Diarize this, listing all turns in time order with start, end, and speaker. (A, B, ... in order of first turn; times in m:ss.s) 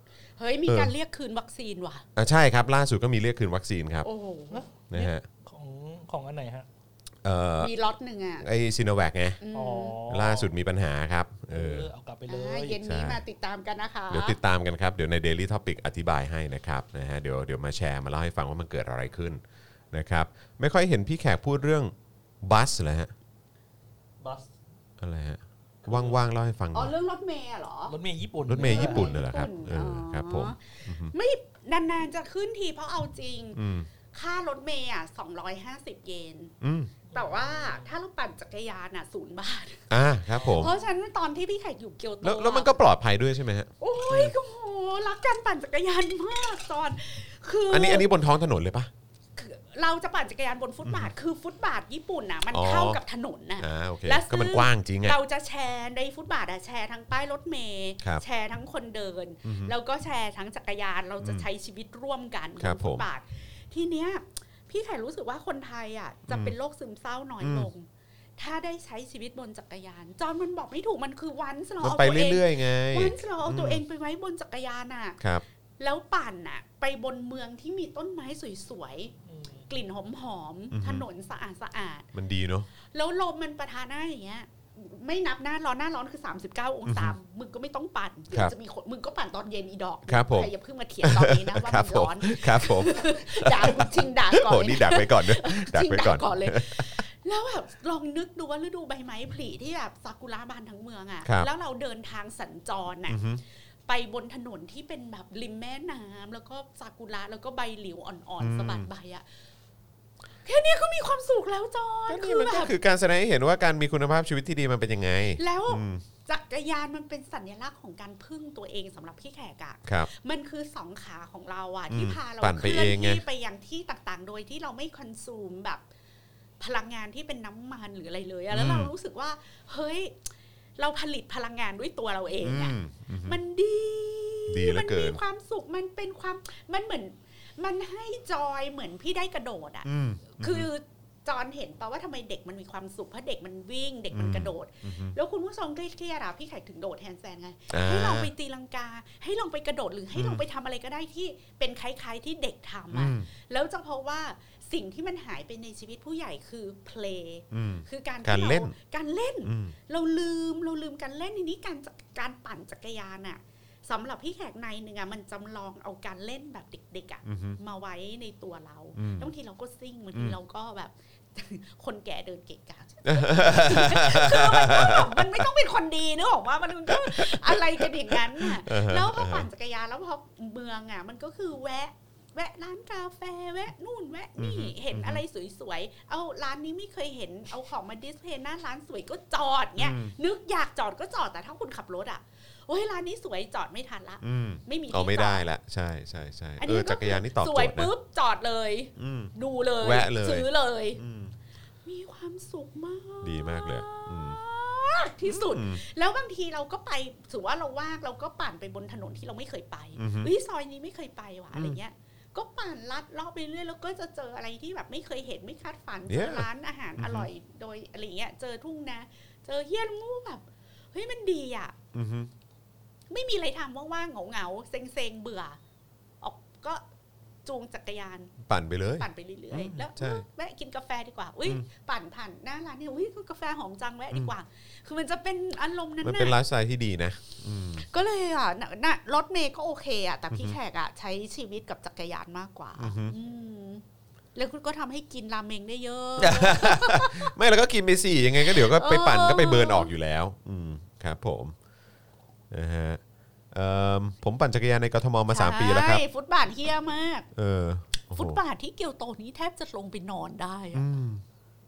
0:00.4-0:02.0 A
0:00.7-0:00.9 B
0:02.2-0:04.1 B
0:04.0-0:04.6 A
0:04.5-0:06.7 C
0:04.9-0:05.2 B
0:07.2-0:07.7 B
0:07.6-0:08.4 A
0:08.4-0:09.4 B
0:09.4-0:10.0 A
0:09.5-0:10.5 C
0:10.1-0:11.9 B
0:11.5-0:12.8 C
0:12.3-0:14.4 A
0:12.8-0:13.2 B
0:14.1-0:19.4 B
0:19.9-0:23.1 B
0:24.2-0:24.5 C
0:25.0-0:26.9 B
0:25.8-0:26.2 C
0:26.7-0:27.9 A
0:27.9-0:29.1 C
0:28.4-0:31.1 B
0:28.5-0:33.6 A
0:33.5-0:33.9 B
0:34.1-0:36.5 A
0:36.6-0:36.9 B
0:37.1-0:37.9 C
0:37.1-0:42.8 A
0:39.9-0:40.7 B
0:42.2-0:44.3 B
0:43.8-0:48.1 A
0:47.7-0:48.9 B
0:49.4-1:15.2 A
0:50.8-0:51.1 B
0:52.5-0:53.0 B
0:53.6-0:55.2 B
0:59.4-0:59.7 B
1:02.6-1:03.0 B
1:06.3-1:06.5 B
1:07.4-1:07.7 B
1:11.8-1:13.8 B
1:15.8-1:19.1 A
1:19.3-1:19.7 C
1:19.7-1:22.1 A
1:20.7-1:21.0 B
1:22.1-1:22.7 B
1:22.8-1:43.2 A
1:26.8-1:27.2 B
1:30.1-1:30.5 B
1:31.0-1:37.0 B
1:43.1-1:43.4 B
1:43.9-1:49.2 A
1:48.4-1:48.9 B
1:50.4-1:52.7 A
1:52.1-1:56.0 B
1:55.4-2:05.8 A
2:01.9-2:03.2 B
2:06.6-3:15.5 A
2:08.5-2:08.9 B
2:12.4-2:13.4 B
2:14.5-2:15.2 B
2:19.8-2:20.7 B
2:24.1-2:25.2 B
2:27.7-2:28.3 B
2:30.1-2:30.4 B
2:32.9-2:33.3 B
2:37.5-2:38.7 B
2:39.4-2:39.7 B
2:47.2-2:47.6 B
2:49.0-2:49.3 B
2:53.0-2:55.5 B
2:56.8-2:59.5 B
3:04.4-3:05.2 B
3:09.8-3:10.1 B
3:14.2-3:17.9 B
3:16.6-3:21.0 A
3:19.0-3:21.3 B
3:21.8-3:41.8 A
3:23.2-3:24.4 B
3:25.2-3:25.8 B
3:30.0-3:30.3 B
3:31.5-3:31.8 B
3:36.1-3:37.3 B
3:41.9-3:42.3 B
3:43.1-3:45.6 A
3:46.2-3:46.8 A
3:47.4-3:48.4 A
3:48.4-3:50.2 B
3:49.0-3:56.4 A
3:56.0-3:57.8 B
3:57.8-4:03.8 A
4:00.3-4:00.6 B
4:02.8-4:03.1 B
4:04.3-4:07.3 A
4:06.2-4:11.5 B
4:08.4-4:09.9 A
4:12.5-4:16.0 B
4:15.3-4:17.3 A
4:17.3-4:18.4 B
4:18.1-4:20.9 A
4:20.7-4:21.2 B